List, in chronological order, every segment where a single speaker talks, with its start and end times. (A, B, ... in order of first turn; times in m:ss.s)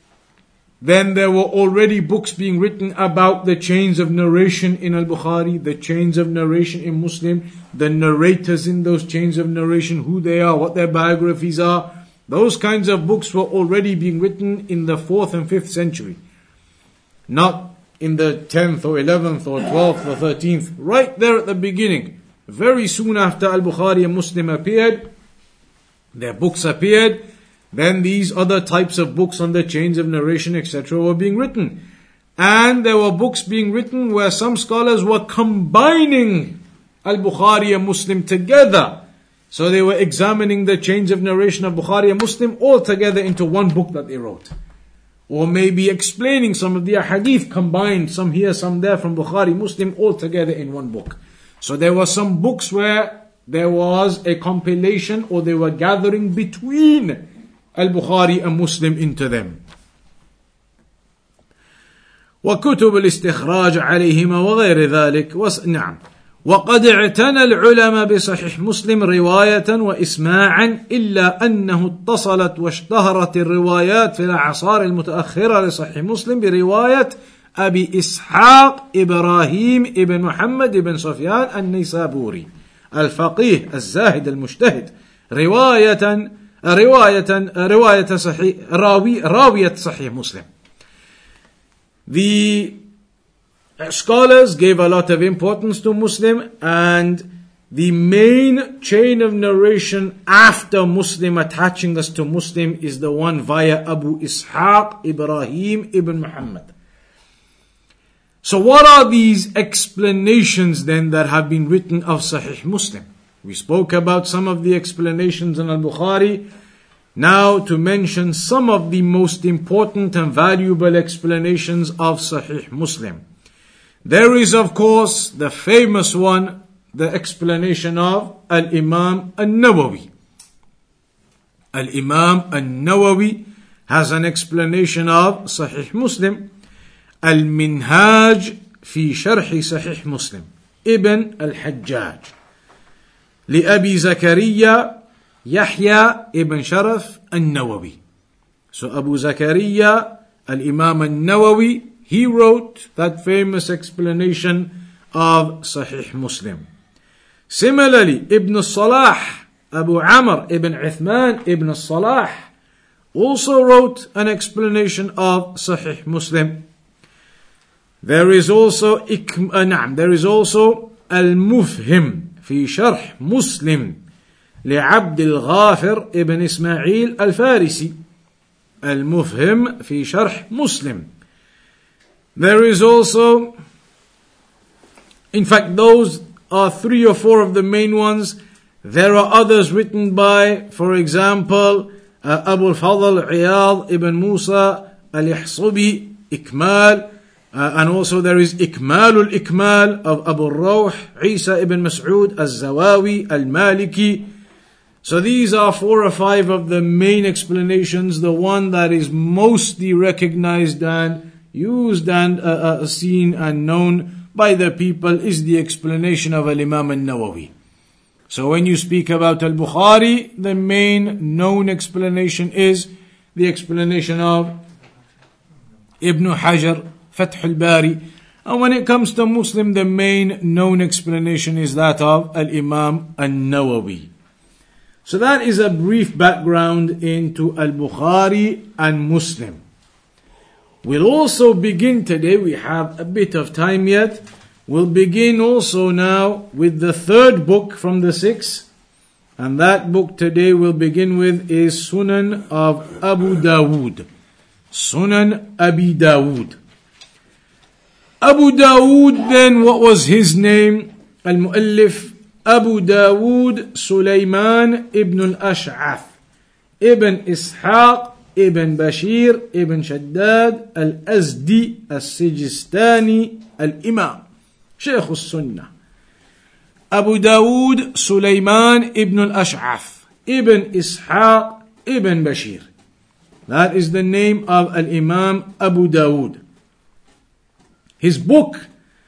0:00.8-0:16.2 A
0:17.3-0:25.1 A
0:26.1-0:31.8 A
0:32.4-0:44.5 A
0:45.3-0:57.2 A
0:57.8-0:59.6 A
1:02.4-1:30.5 A
1:32.1-1:32.8 A
1:33.8-1:46.7 A
1:48.4-1:56.4 A
1:57.2-2:03.2 A
2:04.0-2:10.1 A
2:11.7-2:16.4 A
2:17.2-2:22.3 A
2:23.5-2:28.0 A
2:28.7-2:36.6 A
2:37.5-2:42.5 A
2:43.1-2:46.6 A
2:48.0-2:54.0 A
2:54.6-2:57.9 A
2:58.8-3:01.1 A
3:02.4-3:03.5 A
3:05.3-3:24.3 A
3:25.0-3:37.5 A
3:38.3-3:44.6 A
3:46.0-3:54.1 A
3:55.0-3:59.6 A
4:00.8-4:08.7 A
4:09.4-4:14.1 A
4:14.7-4:16.6 A
4:18.2-4:26.1 A
4:26.8-4:34.2 A
4:34.8-4:35.7 A
4:36.9-4:42.7 A
4:43.5-4:46.4 A
4:48.0-4:48.7 A